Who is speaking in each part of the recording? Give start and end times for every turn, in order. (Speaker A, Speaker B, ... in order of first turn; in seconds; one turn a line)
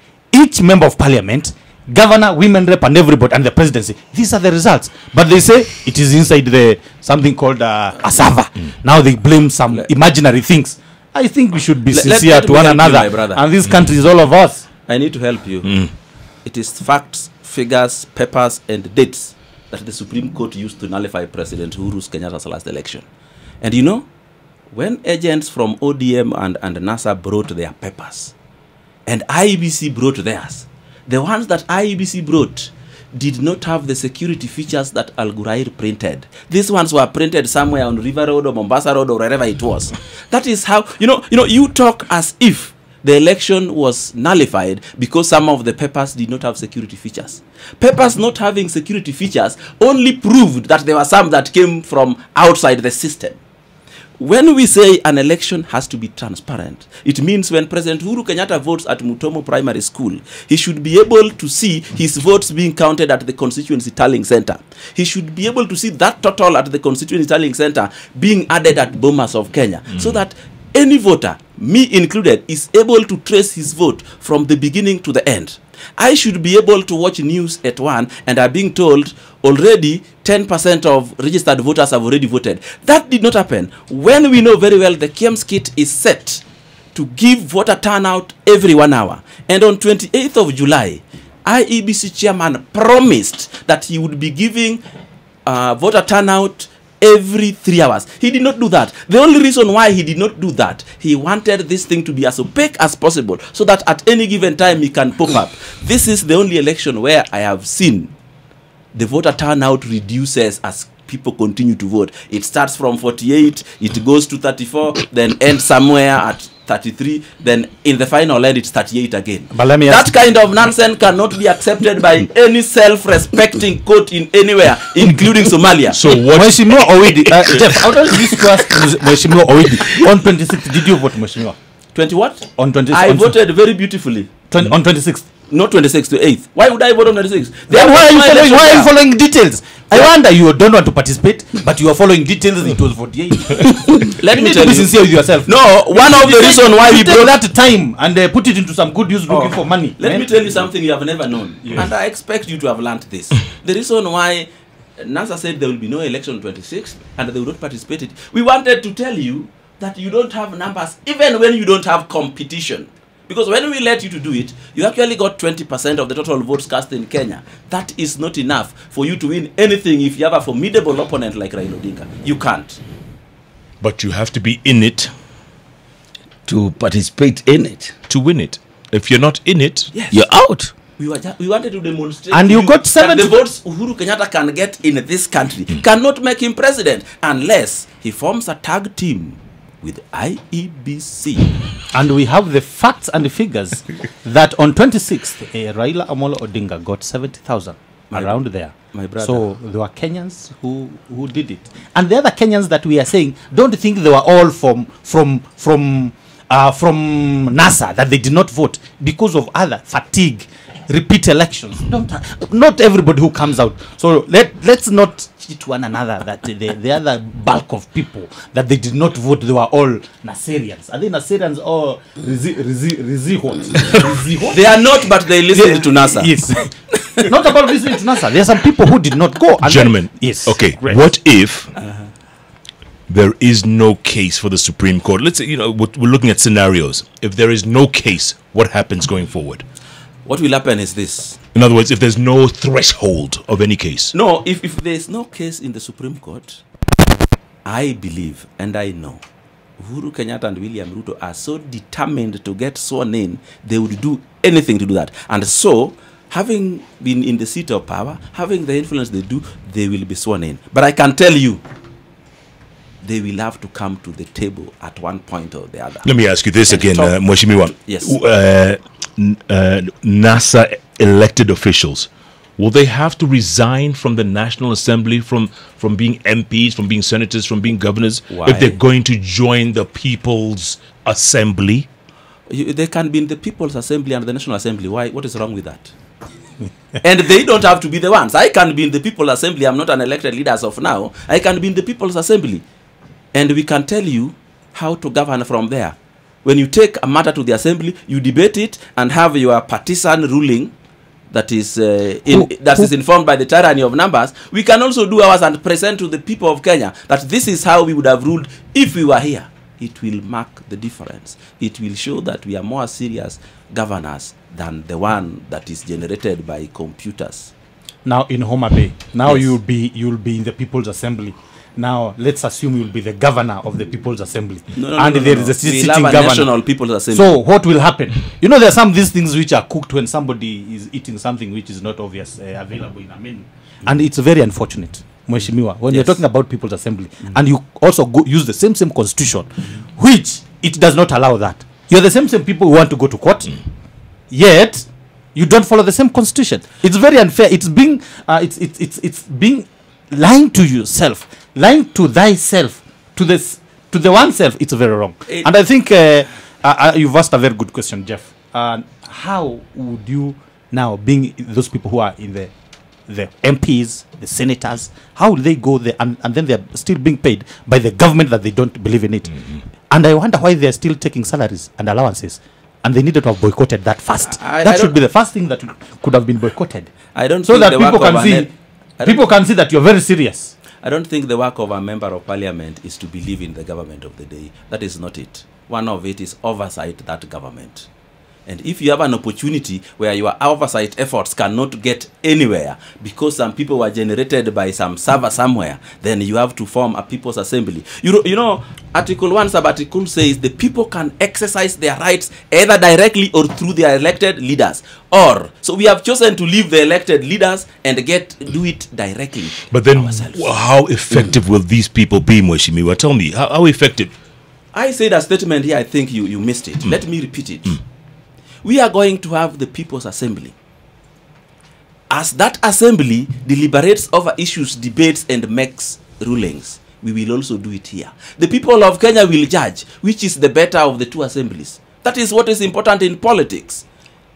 Speaker A: 0.3-14.7
Speaker B: 11.9-13.4
Speaker B: 14.9-15.9
Speaker B: 16.4-23.1
Speaker B: 23.6-24.1
Speaker B: 24.7-28.3
Speaker B: 29.1-53.4
Speaker B: 54.2-94.8
Speaker B: 95.5-108.1
Speaker B: 108.9-126.0
Speaker A: 119.5-120.1
Speaker C: 125.9-127.9
Speaker A: 126.3-131.6
Speaker B: 131.9-134.3
Speaker A: 132.6-133.3
Speaker A: 134.5-135.3
Speaker B: 135.5-138.9
Speaker A: 137.7-150.3
Speaker B: 144.0-147.4
Speaker B: 149.3-172.8
Speaker C: 173.8-175.1
Speaker D: 176.4-177.9
Speaker C: 178.1-179.9
Speaker B: 179.9-180.2
Speaker D: 180.1-180.7
Speaker B: 181.0-191.5
Speaker A: 182.3-183.4
Speaker A: 191.9-224.6
Speaker B: 198.1-198.3
Speaker B: 198.9-199.4
Speaker B: 224.4-226.3
Speaker A: 225.5-231.1
Speaker C: 229.6-231.7
Speaker C: 233.1-239.6
Speaker B: 240.2-241.4
Speaker C: 241.5-244.1
Speaker B: 244.1-246.6
Speaker B: 247.7-249.2
Speaker B: 249.8-261.6
Speaker B: 263.0-266.1
Speaker C: 266.0-281.9
Speaker B: 266.7-267.2
Speaker B: 267.7-268.1
Speaker B: 278.3-278.8
Speaker B: 282.5-285.9
Speaker B: 287.0-292.6
Speaker B: 293.3-300.7
Speaker B: 301.3-317.5
Speaker A: 302.3-302.9
Speaker A: 318.0-326.5
Speaker B: 324.8-327.4
Speaker A: 327.1-343.6
Speaker B: 335.9-336.2
Speaker A: 344.3-362.5
Speaker A: 363.1-376.9
Speaker B: 374.3-375.0
Speaker B: 377.1-379.2
Speaker A: 377.4-378.5
Speaker A: 379.0-380.5
Speaker B: 380.8-387.9
Speaker B: 388.4-410.5
Speaker C: 409.7-414.1
Speaker B: 414.7-417.8
Speaker B: 418.6-420.5
Speaker B: 422.1-433.8